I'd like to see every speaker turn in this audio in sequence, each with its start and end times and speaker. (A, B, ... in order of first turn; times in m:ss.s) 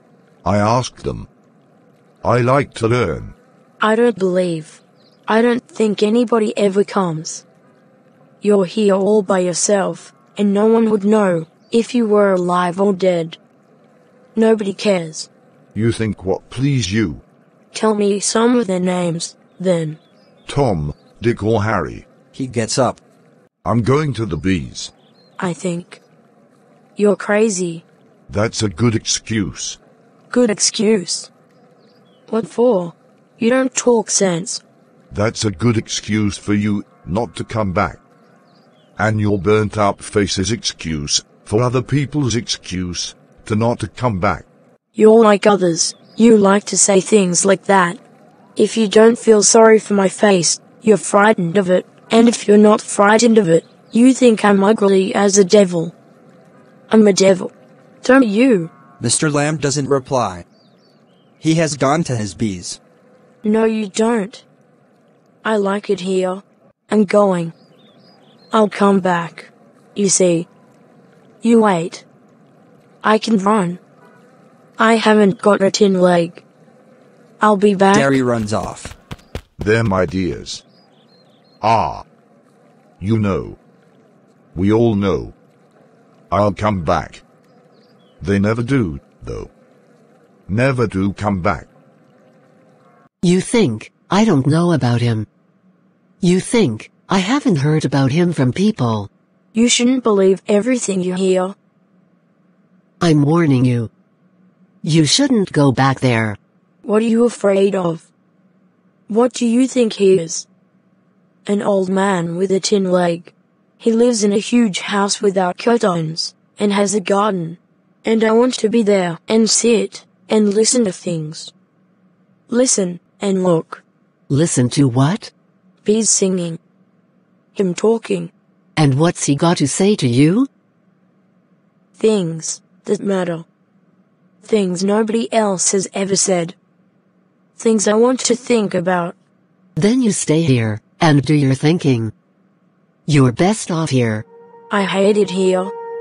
0:00.4-0:01.3 A
0:02.2-0:03.4 A
0:03.8-0:07.4 B
0:08.4-0:13.4 B
0:14.4-0:15.3 B
0:15.7-0:17.2 A
0:17.7-0:20.0 B
0:20.5-0:22.1 A
0:22.3-0:23.0 C
0:23.6-0:24.9 A
0:25.4-0:26.0 B
0:27.0-0:27.8 B
0:28.3-0:29.8 A
0:30.3-0:31.3 B
0:32.3-0:34.6 B
0:35.1-0:38.0 A
0:39.0-0:44.5 A
0:45.0-0:48.0 B
0:48.6-0:55.9 B
0:56.9-0:57.5 B
0:58.0-0:58.7 B
0:59.0-1:00.5 C
1:01.4-1:02.8 C
1:03.4-1:04.4 B
1:05.4-1:07.5 B
1:08.5-1:10.5 B
1:11.4-1:12.1 B
1:13.0-1:13.8 B
1:14.8-1:16.4 B
1:17.4-1:18.2 B
1:17.9-1:19.0 C
1:19.6-1:20.6 A
1:21.6-1:22.0 A
1:23.0-1:23.6 A
1:24.5-1:25.4 A
1:26.3-1:27.2 A
1:28.2-1:29.5 A
1:30.5-1:31.7 A
1:33.2-1:35.3 D
1:36.2-1:39.1 D
1:39.5-1:41.6 B
1:43.0-1:43.9 D
1:44.8-1:46.4 D
1:46.8-1:48.1 B
1:49.1-1:50.5 B
1:51.5-2:01.5 B
2:02.5-2:03.8 B
2:04.3-2:05.3 D
2:05.8-2:06.6 B
2:07.5-2:08.3 B
2:08.8-2:10.5 D
2:12.0-2:13.5 B
2:14.4-2:16.6 B
2:17.6-2:19.2 B
2:19.8-2:22.1 D
2:23.1-2:24.2 D
2:24.7-2:25.7 B